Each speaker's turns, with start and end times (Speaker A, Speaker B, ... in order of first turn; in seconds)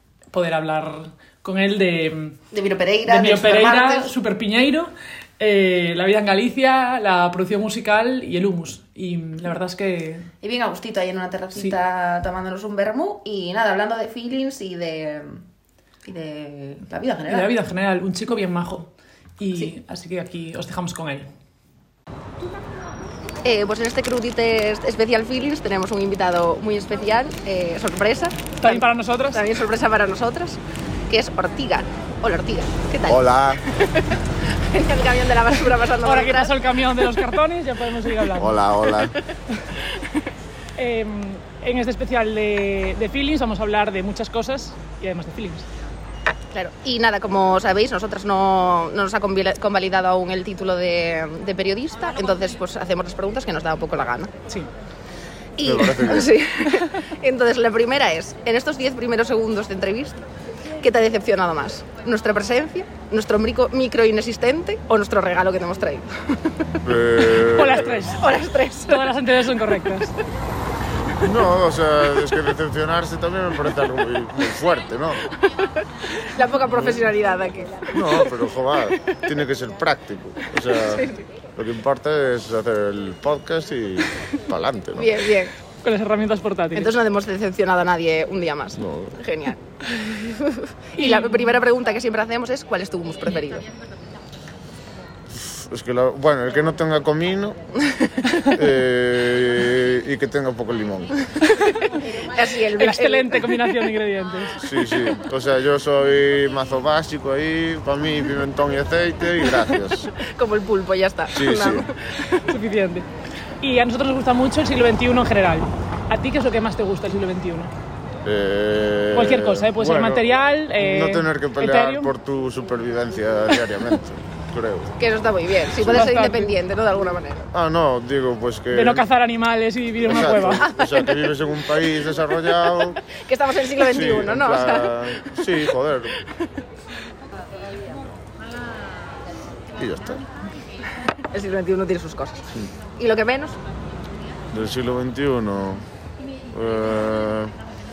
Speaker A: 0.3-2.4, 3.1-10.3, 17.3-21.3, 28.6-29.4, 36.0-38.7, 40.8-45.7, 67.4-70.2, 85.8-86.9, 91.0-91.6, 102.7-104.6, 112.5-113.1, 113.6-117.7, 119.1-122.1, 125.8-126.5, 128.7-130.7
Speaker B: 2.5-4.1, 10.4-15.4, 16.0-17.5, 23.4-36.5, 46.5-54.3, 55.6-60.2, 60.8-66.1, 67.9-69.0, 76.2-78.3, 80.7-81.2, 84.9-85.5, 86.7-93.7, 102.2-103.6, 110.2-112.4, 125.0-127.5, 130.2-131.3, 133.1-135.4, 141.3-143.6
Speaker C: 33.1-33.6, 38.4-39.1, 55.6-56.4, 66.8-68.1, 71.2-75.2, 76.7-77.1, 77.9-85.2, 88.8-89.2, 95.3-97.6, 98.5-101.2, 104.6-110.1, 111.3-111.9, 118.2-124.9, 127.5-129.0, 130.0-133.0, 133.8-136.1, 139.8-140.2, 144.5-145.8, 146.5-147.5